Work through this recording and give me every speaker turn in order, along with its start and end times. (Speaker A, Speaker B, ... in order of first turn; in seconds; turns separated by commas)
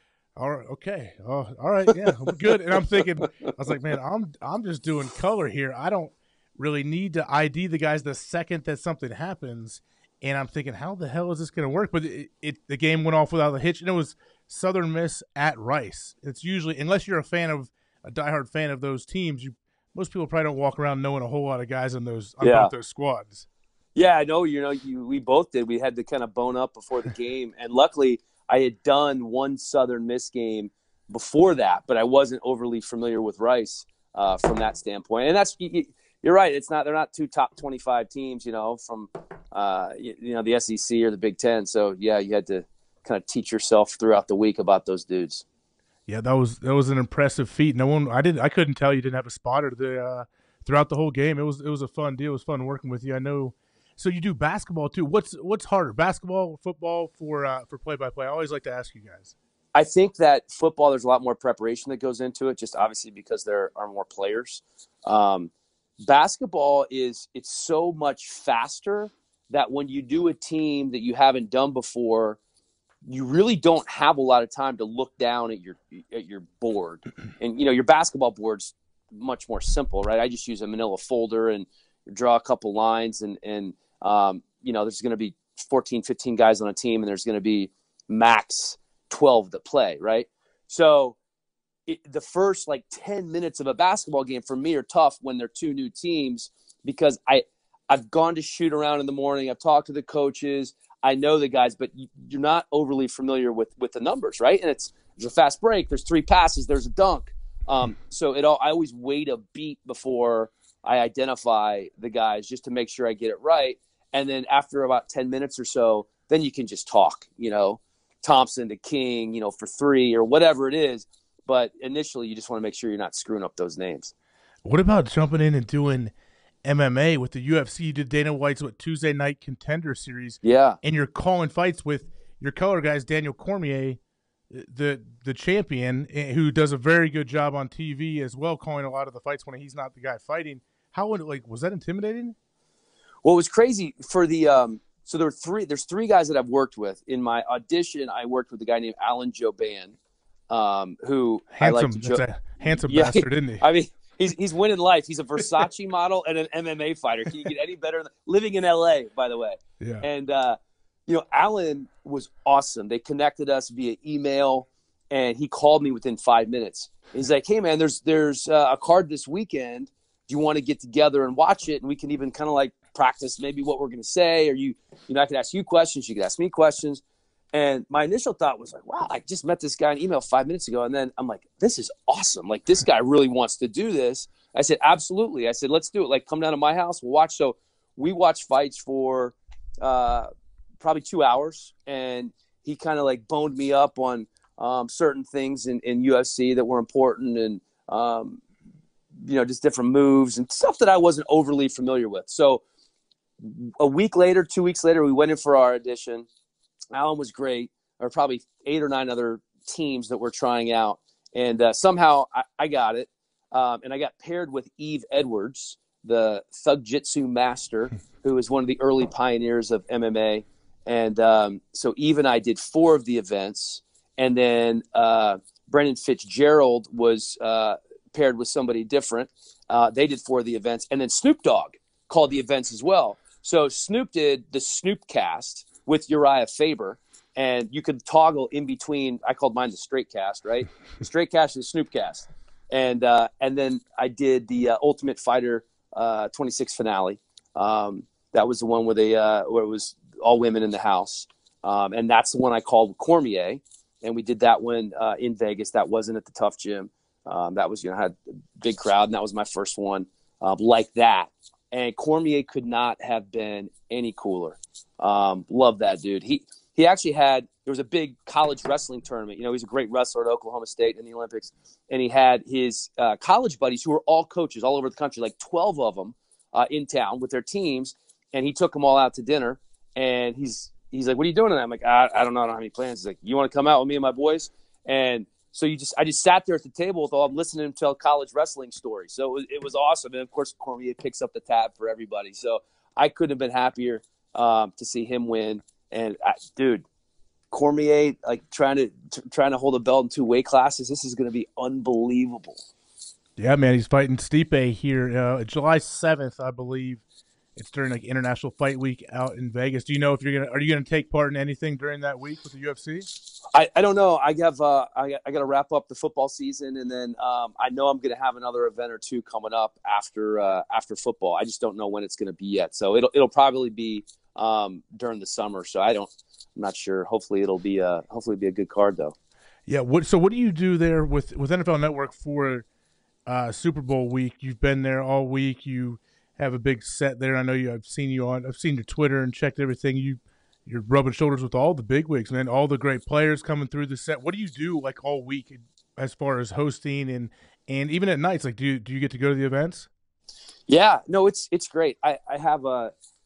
Speaker A: 0.3-23.4, Speaker B: 2.1-3.5, Speaker B: 22.4-22.7, Speaker B: 23.9-45.4, Speaker A: 46.1-59.3, Speaker B: 59.7-72.4, Speaker B: 73.0-91.2, Speaker B: 91.9-124.1, Speaker A: 124.6-126.1, Speaker A: 126.6-134.0, Speaker B: 130.4-130.8, Speaker A: 134.5-142.3, Speaker B: 143.2-149.9, Speaker B: 150.5-152.2, Speaker A: 151.5-153.6, Speaker B: 152.8-177.0, Speaker A: 159.8-160.1, Speaker B: 177.5-190.3, Speaker B: 190.8-198.4, Speaker B: 199.2-202.6, Speaker B: 203.4-206.3, Speaker B: 206.9-296.9, Speaker B: 297.5-302.6, Speaker A: 303.4-307.0, Speaker A: 307.6-313.1, Speaker B: 313.5-329.1, Speaker A: 329.7-332.6, Speaker A: 333.2-349.9, Speaker B: 350.7-352.9